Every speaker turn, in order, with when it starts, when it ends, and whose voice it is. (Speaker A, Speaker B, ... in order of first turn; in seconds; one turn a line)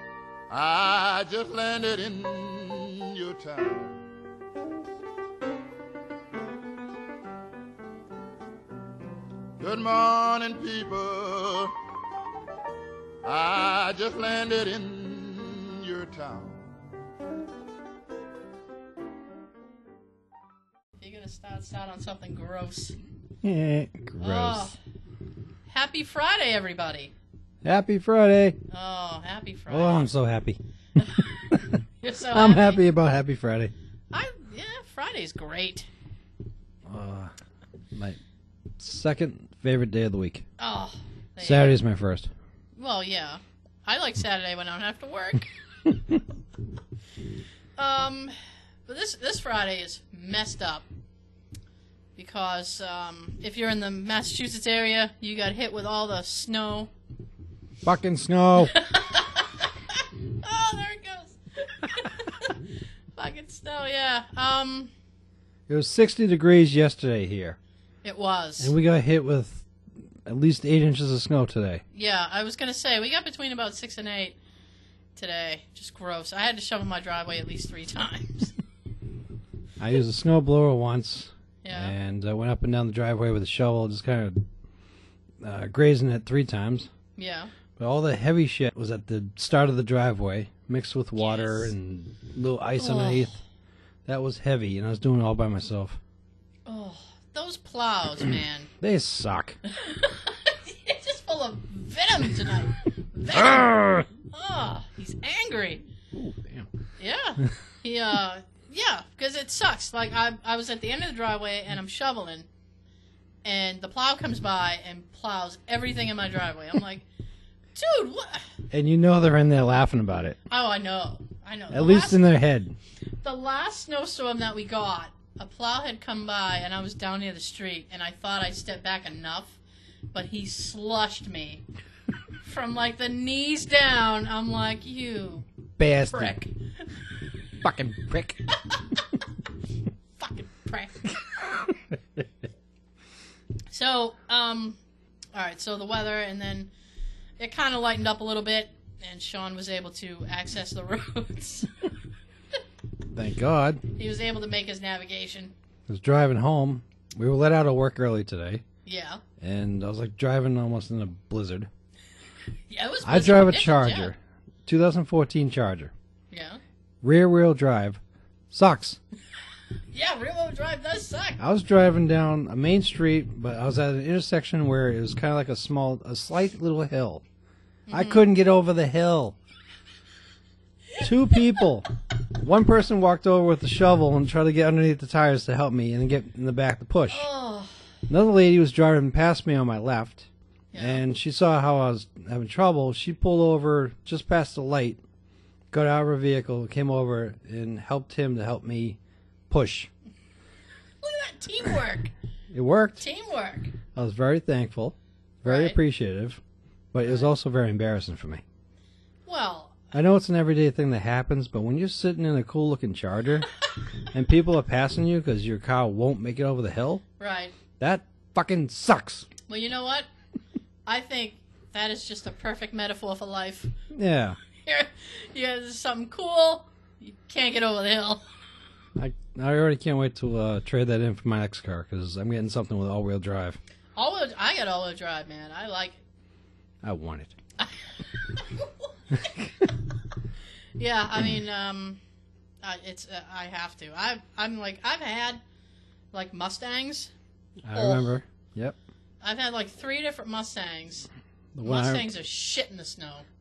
Speaker A: 0.5-4.0
Speaker A: 9.6-11.7
Speaker A: 13.2-16.6
Speaker B: 21.0-23.0
Speaker C: 23.4-24.7
Speaker B: 24.2-24.8
Speaker B: 25.7-27.1
Speaker C: 27.6-28.6
Speaker B: 28.7-30.1
Speaker C: 29.7-31.8
Speaker B: 32.0-32.8
Speaker C: 32.3-33.7
Speaker B: 34.1-35.9
Speaker C: 36.9-37.3
Speaker C: 37.9-38.2
Speaker C: 38.8-40.5
Speaker B: 40.6-41.8
Speaker C: 41.4-42.3
Speaker B: 42.8-45.5
Speaker B: 47.8-48.3
Speaker B: 48.9-50.9
Speaker B: 52.1-56.9
Speaker C: 57.8-58.8
Speaker B: 58.6-64.9
Speaker C: 65.7-67.6
Speaker B: 68.0-68.7
Speaker C: 68.6-69.7
Speaker C: 70.2-71.8
Speaker B: 71.9-74.3
Speaker B: 75.2-78.5
Speaker C: 79.8-84.5
Speaker B: 81.6-81.9
Speaker C: 85.4-86.9
Speaker B: 87.2-87.5
Speaker C: 87.8-93.3
Speaker B: 91.2-91.7
Speaker B: 92.8-93.3
Speaker C: 94.0-96.0
Speaker B: 96.7-98.7
Speaker C: 98.8-99.6
Speaker B: 99.7-105.8
Speaker C: 103.3-104.0
Speaker C: 106.1-106.7
Speaker B: 107.0-112.5
Speaker B: 113.4-117.0
Speaker B: 117.7-118.5
Speaker C: 118.7-120.4
Speaker B: 120.5-122.3
Speaker C: 121.7-122.7
Speaker B: 123.2-129.6
Speaker B: 130.1-131.6
Speaker B: 132.4-135.4
Speaker C: 135.8-136.3
Speaker B: 136.0-137.0
Speaker C: 137.6-138.4
Speaker B: 138.7-139.0
Speaker B: 140.2-141.4
Speaker B: 143.7-144.8
Speaker B: 145.3-146.7
Speaker B: 147.4-151.7
Speaker C: 153.1-153.8
Speaker B: 153.9-155.5
Speaker C: 155.9-158.6
Speaker B: 158.8-159.2
Speaker C: 159.4-161.7
Speaker B: 162.7-164.1
Speaker C: 163.0-165.9
Speaker B: 166.3-166.6
Speaker C: 167.0-168.0
Speaker C: 168.5-169.0
Speaker B: 169.9-171.4
Speaker C: 171.4-177.2
Speaker B: 177.9-178.2
Speaker C: 177.9-179.4
Speaker C: 181.0-187.3
Speaker B: 187.1-187.7
Speaker C: 188.1-195.0
Speaker B: 190.7-191.0
Speaker C: 195.7-199.0
Speaker C: 199.5-199.9
Speaker B: 201.0-202.1
Speaker C: 202.5-203.0
Speaker B: 203.0-203.8
Speaker C: 203.9-206.4
Speaker B: 205.4-205.8
Speaker C: 206.9-208.4
Speaker B: 207.0-207.3
Speaker B: 209.2-209.8
Speaker C: 209.9-213.5
Speaker C: 214.1-217.0
Speaker B: 217.2-217.5
Speaker C: 217.8-219.3
Speaker B: 219.5-220.1
Speaker B: 220.8-223.7
Speaker C: 223.9-224.4
Speaker B: 224.6-228.2
Speaker C: 228.9-233.6
Speaker B: 233.9-236.0
Speaker C: 236.8-237.3
Speaker B: 237.6-238.9
Speaker C: 239.2-239.6
Speaker B: 240.8-242.0
Speaker B: 242.6-245.4
Speaker B: 246.1-247.1
Speaker C: 247.6-248.8
Speaker B: 247.7-248.1
Speaker B: 249.2-251.1
Speaker C: 251.5-252.1
Speaker B: 251.6-253.2